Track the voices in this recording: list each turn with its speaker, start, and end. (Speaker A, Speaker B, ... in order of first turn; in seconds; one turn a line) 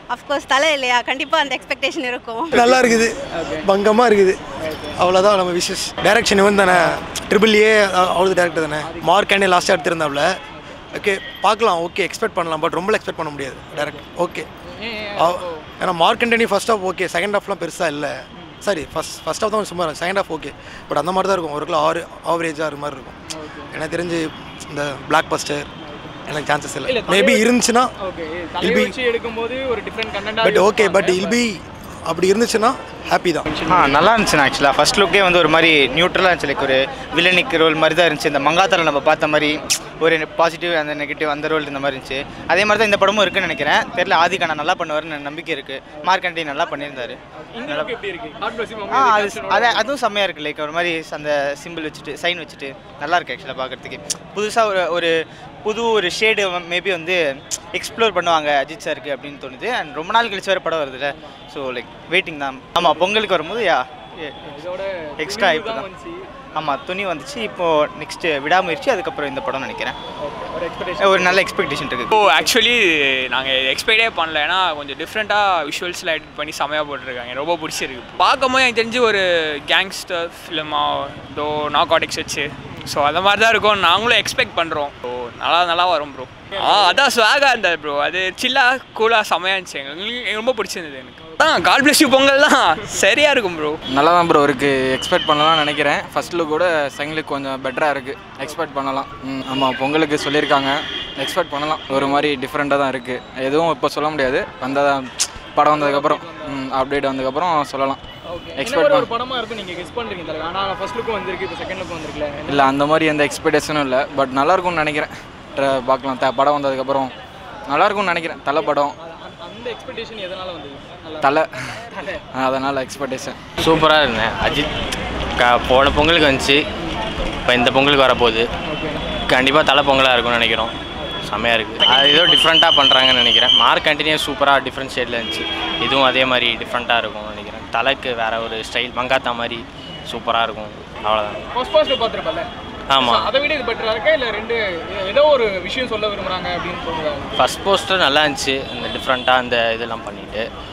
Speaker A: 0.2-2.4
Speaker B: 2.5-4.4
Speaker C: 3.4-3.6
Speaker C: 4.6-4.9
Speaker B: 4.9-10.3
Speaker C: 8.8-9.1
Speaker B: 10.9-14.4
Speaker C: 13.8-14.0
Speaker C: 14.7-15.7
Speaker B: 15.2-23.1
Speaker C: 23.3-23.7
Speaker B: 23.7-25.7
Speaker C: 25.8-26.2
Speaker B: 26.3-27.9
Speaker C: 26.9-27.4
Speaker C: 28.0-31.3
Speaker B: 28.6-28.9
Speaker B: 30.4-33.5
Speaker C: 33.5-34.0
Speaker D: 33.7-47.9
Speaker C: 47.5-49.9
Speaker D: 48.9-55.1
Speaker D: 55.6-57.2
Speaker D: 57.7-64.5
Speaker C: 64.5-66.3
Speaker D: 65.2-65.9
Speaker D: 66.5-70.0
Speaker C: 70.2-71.5
Speaker D: 71.0-72.1
Speaker E: 72.1-93.8
Speaker C: 86.6-87.0
Speaker F: 93.9-108.0
Speaker C: 101.9-102.2
Speaker C: 105.7-106.5
Speaker C: 108.3-112.7
Speaker F: 108.6-109.1
Speaker F: 112.5-117.1
Speaker F: 117.7-119.0
Speaker C: 119.0-121.3
Speaker F: 121.2-121.8
Speaker F: 122.3-123.4
Speaker G: 123.6-124.7
Speaker G: 125.4-126.6
Speaker G: 127.4-128.5
Speaker C: 128.6-129.0
Speaker G: 129.3-130.7
Speaker G: 131.3-141.5
Speaker C: 131.8-132.4
Speaker C: 141.5-142.5
Speaker G: 142.9-143.3
Speaker C: 143.0-147.5
Speaker G: 147.3-150.5